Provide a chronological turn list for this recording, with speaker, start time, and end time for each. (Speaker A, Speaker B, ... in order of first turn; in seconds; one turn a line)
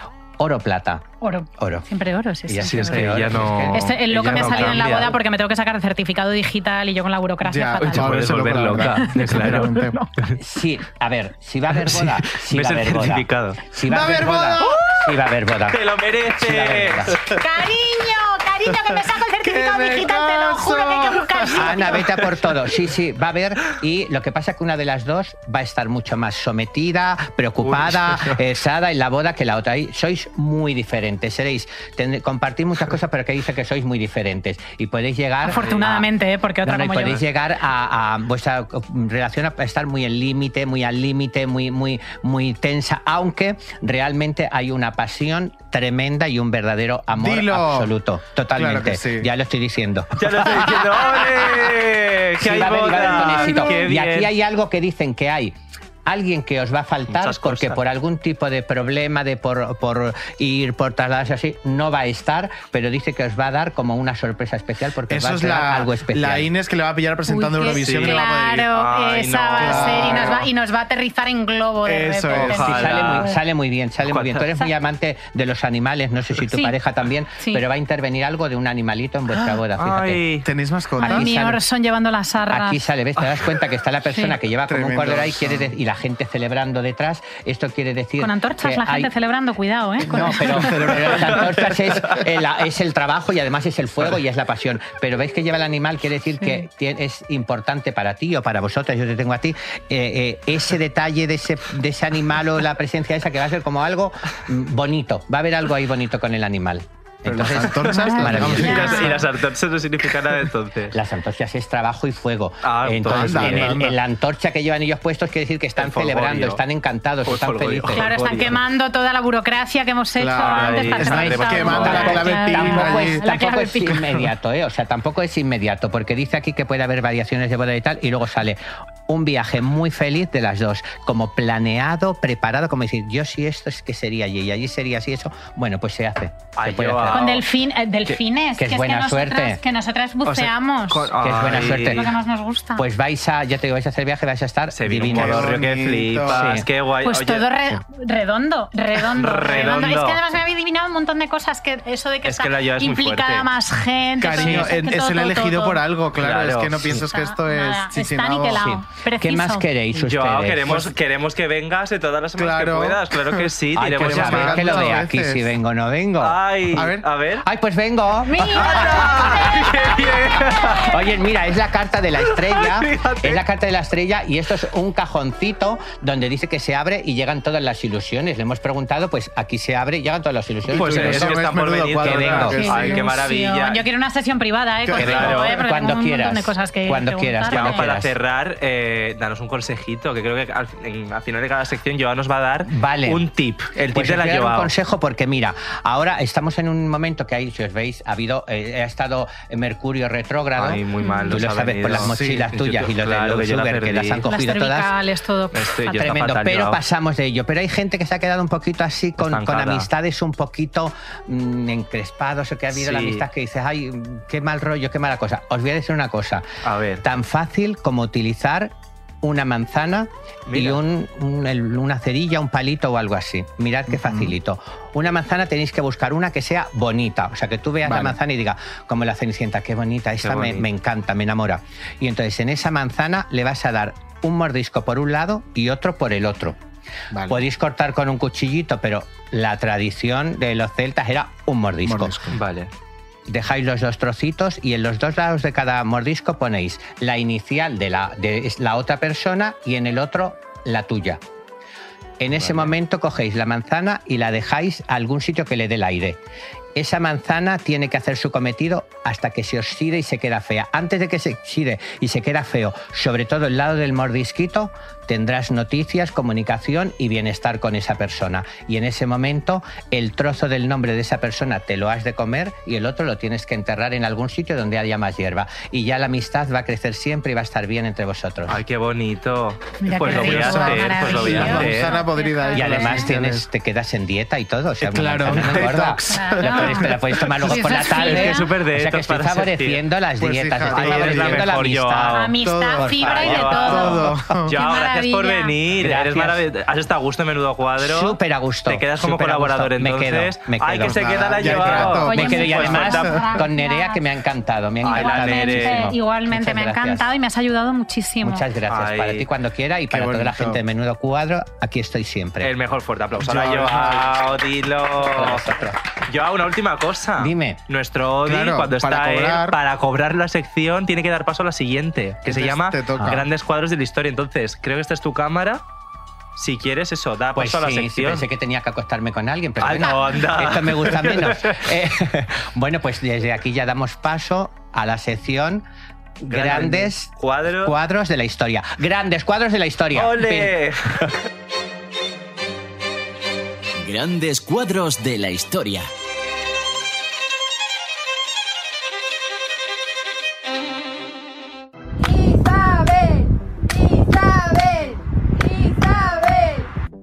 Speaker A: 0.4-1.9
Speaker B: 1.2-10.1
Speaker A: 2.5-5.1
Speaker C: 2.6-5.1
Speaker D: 7.4-10.0
Speaker C: 7.8-10.4
Speaker A: 10.3-17.2
Speaker C: 11.7-13.6
Speaker D: 13.9-14.8
Speaker C: 15.7-17.3
Speaker B: 17.3-22.2
Speaker D: 19.4-21.9
Speaker A: 21.5-36.1
Speaker C: 27.6-28.4
Speaker B: 35.4-37.2
Speaker C: 35.5-35.9
Speaker A: 36.6-50.7
Speaker D: 47.1-47.9
Speaker D: 48.5-49.3
Speaker C: 50.1-54.3
Speaker D: 50.4-51.2
Speaker A: 52.4-66.5
Speaker C: 57.1-57.8
Speaker D: 65.1-68.7
Speaker B: 67.3-73.4
Speaker C: 67.8-70.3
Speaker D: 69.6-70.5
Speaker D: 71.8-72.7
Speaker C: 72.3-73.3
Speaker A: 72.5-80.3
Speaker C: 74.0-74.5
Speaker B: 76.5-76.7
Speaker B: 77.4-77.6
Speaker C: 79.7-80.5
Speaker D: 80.4-81.3
Speaker B: 81.0-82.8
Speaker A: 81.0-81.6
Speaker A: 82.5-89.1
Speaker B: 84.1-84.3
Speaker D: 84.7-85.7
Speaker B: 88.2-91.0
Speaker D: 90.0-92.2
Speaker A: 90.0-109.0
Speaker B: 96.4-96.7
Speaker D: 107.2-109.2
Speaker B: 107.8-109.2
Speaker C: 108.2-111.0
Speaker A: 110.9-118.0
Speaker C: 112.6-113.8
Speaker D: 113.0-114.0
Speaker C: 115.8-116.6
Speaker C: 117.2-118.6
Speaker B: 117.9-124.2
Speaker D: 120.2-123.3
Speaker C: 120.4-122.7
Speaker A: 121.8-137.3
Speaker D: 123.9-124.2
Speaker C: 136.6-137.4
Speaker B: 137.1-142.8
Speaker A: 138.6-139.6
Speaker C: 140.2-142.1
Speaker A: 141.2-142.1
Speaker A: 142.8-145.6
Speaker C: 144.7-147.5
Speaker D: 145.1-146.6
Speaker A: 146.2-146.7
Speaker B: 147.0-155.8
Speaker C: 149.1-150.2
Speaker C: 152.2-153.5
Speaker D: 154.2-158.7
Speaker C: 154.3-154.7
Speaker C: 156.1-157.0
Speaker B: 156.9-159.7
Speaker A: 158.6-160.8
Speaker C: 159.9-165.0
Speaker D: 162.3-165.5
Speaker A: 163.7-166.4
Speaker C: 166.2-167.5
Speaker D: 166.7-167.1
Speaker A: 167.4-169.3
Speaker B: 168.2-169.9
Speaker C: 168.5-170.9
Speaker A: 170.8-181.4
Speaker C: 172.2-173.4
Speaker D: 180.7-183.1
Speaker C: 180.7-183.8
Speaker A: 182.0-182.6
Speaker B: 182.4-187.9
Speaker D: 184.8-185.4
Speaker C: 185.0-185.5
Speaker A: 185.0-188.1
Speaker C: 187.4-194.7
Speaker A: 192.7-193.2
Speaker A: 193.8-204.9
Speaker C: 200.5-204.3
Speaker B: 201.0-201.4
Speaker D: 201.9-202.5
Speaker B: 204.3-206.1
Speaker C: 205.5-206.8
Speaker A: 205.9-216.4
Speaker C: 209.2-209.9
Speaker C: 212.7-213.2
Speaker C: 216.6-217.0
Speaker A: 217.0-218.7
Speaker A: 219.2-236.6
Speaker C: 220.5-220.8
Speaker D: 223.9-224.3
Speaker D: 227.8-228.2
Speaker C: 230.2-230.7
Speaker D: 237.1-237.4
Speaker A: 237.3-242.2
Speaker D: 241.8-242.4
Speaker C: 242.3-242.7
Speaker A: 243.3-251.2
Speaker A: 252.2-256.2
Speaker C: 252.3-252.7
Speaker A: 256.7-278.6
Speaker C: 278.4-281.9
Speaker B: 279.8-283.1
Speaker D: 280.0-283.4
Speaker A: 282.5-292.3
Speaker D: 284.8-287.3
Speaker C: 285.2-285.8
Speaker B: 286.1-288.5
Speaker C: 287.5-289.8
Speaker D: 290.2-291.5
Speaker C: 290.7-292.3
Speaker B: 292.1-295.6
Speaker D: 292.4-294.5
Speaker A: 292.8-293.3
Speaker C: 293.0-303.4
Speaker A: 295.8-296.4
Speaker A: 297.8-307.1
Speaker D: 300.8-303.3
Speaker B: 302.0-304.0
Speaker C: 304.8-305.9
Speaker B: 304.8-308.4
Speaker A: 308.2-312.5
Speaker C: 308.7-309.3
Speaker D: 309.9-310.6
Speaker C: 312.4-315.4
Speaker D: 313.2-314.2
Speaker A: 314.9-315.8
Speaker C: 316.1-325.6
Speaker A: 317.2-317.6
Speaker D: 318.2-319.6
Speaker D: 322.2-323.2
Speaker A: 322.9-323.2
Speaker C: 326.4-328.3
Speaker A: 327.3-335.6
Speaker C: 329.6-331.6
Speaker A: 336.2-340.5
Speaker C: 336.3-337.8
Speaker C: 339.9-341.1
Speaker E: 343.8-345.9
Speaker F: 352.0-356.7